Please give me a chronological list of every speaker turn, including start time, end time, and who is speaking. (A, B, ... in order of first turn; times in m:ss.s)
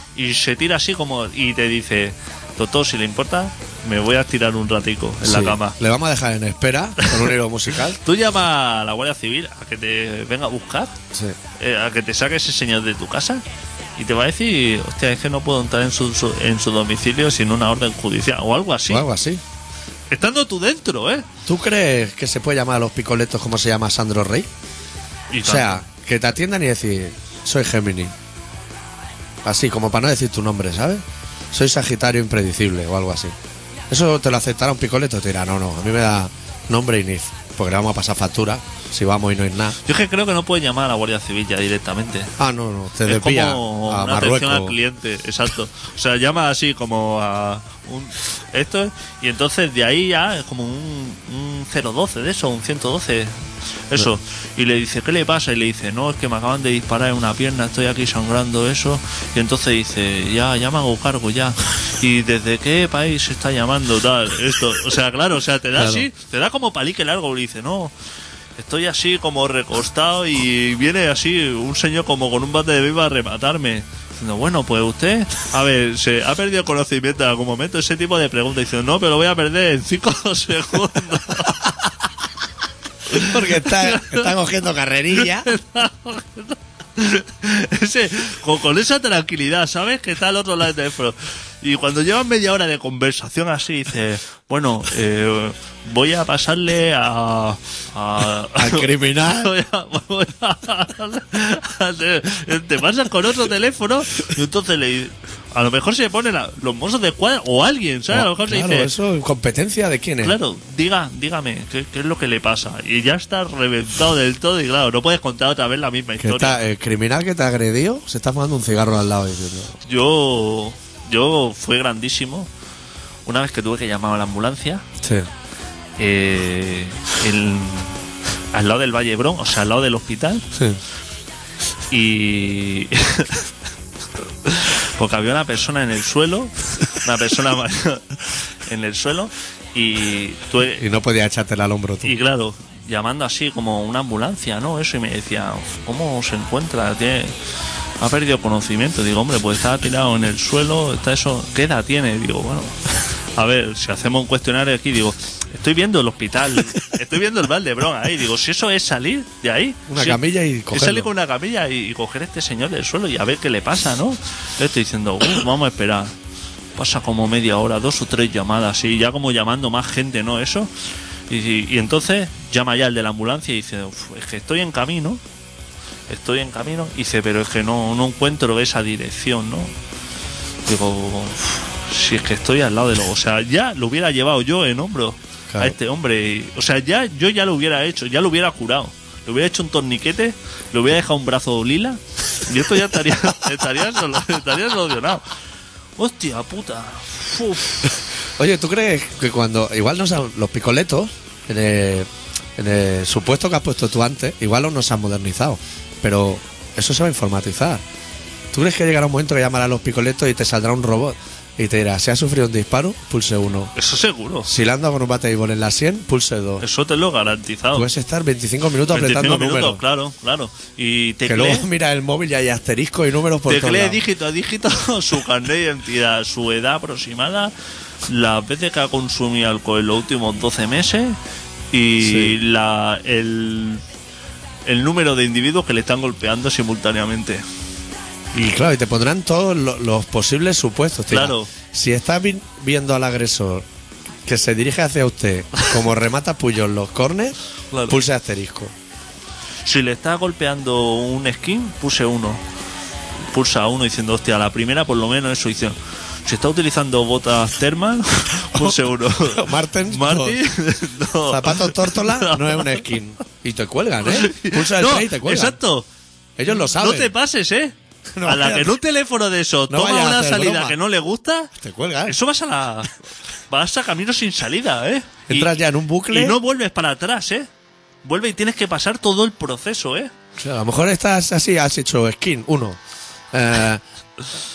0:00.1-0:05.8 A
0:05.2-0:08.0 B
0:08.0-0:10.9 A
0:11.6-0:13.4 A
0:14.0-0:19.0 A
0:18.9-0:19.4 B
0:20.1-0:21.2 A
0:21.4-0:24.5 B
0:25.3-0:25.8 A
0:25.4-0:28.1 B
0:29.4-0:33.3 B
0:33.9-0:39.8 B
0:39.8-0:42.3 A
0:42.4-0:44.8 B
0:43.0-1:07.9 A
1:05.8-1:06.1 B
1:08.6-1:21.7 A
1:23.1-1:24.3 A
1:23.1-1:25.5 B
1:25.2-1:48.9 A
1:38.6-1:39.5 B
1:48.1-1:50.4 B
1:50.2-1:56.6 A
1:56.2-1:59.7 B
1:59.8-2:02.5 A
2:03.2-2:04.8 A
2:05.0-2:05.3 B
2:06.0-2:08.0 A
2:08.5-2:10.5 A
2:11.9-2:13.5 A
2:14.4-2:20.8 A
2:20.8-2:22.1 B
2:22.0-2:27.3 A
2:28.0-2:46.1 A
2:39.9-2:41.1 B
2:46.8-2:50.7 A
2:51.3-2:55.2 A
2:56.1-2:59.7 A
3:00.6-3:15.3 A
3:05.5-3:05.8 B
3:16.0-3:17.9 A
3:18.4-3:27.8 B
3:28.5-3:33.7 B
3:33.7-3:34.5 A
3:34.4-3:36.6 B
3:36.6-3:37.9 A
3:37.7-3:39.8 B
3:38.9-3:41.6 A
3:41.2-3:44.0 B
3:43.5-3:47.5 A
3:48.0-3:51.2 A
3:51.7-3:53.8 A
3:52.0-3:52.4 B
3:54.6-3:57.4 A
3:58.3-4:03.6 B
4:01.1-4:01.5 A
4:04.2-4:08.7 B
4:07.7-4:08.0 A
4:09.6-4:12.4 A
4:13.2-4:22.8 A
4:18.5-4:20.4 B
4:21.3-4:25.6 B
4:24.0-4:25.9 A
4:26.4-4:27.1 B
4:26.5-4:31.5 A
4:28.2-4:28.8 B
4:29.7-4:30.8 B
4:31.5-4:32.2 B
4:32.0-4:33.0 A
4:33.5-4:35.5 A
4:35.3-4:36.4 B
4:36.1-4:37.5 A
4:38.0-4:40.1 A
4:40.4-4:42.8 B
4:43.3-4:43.8 B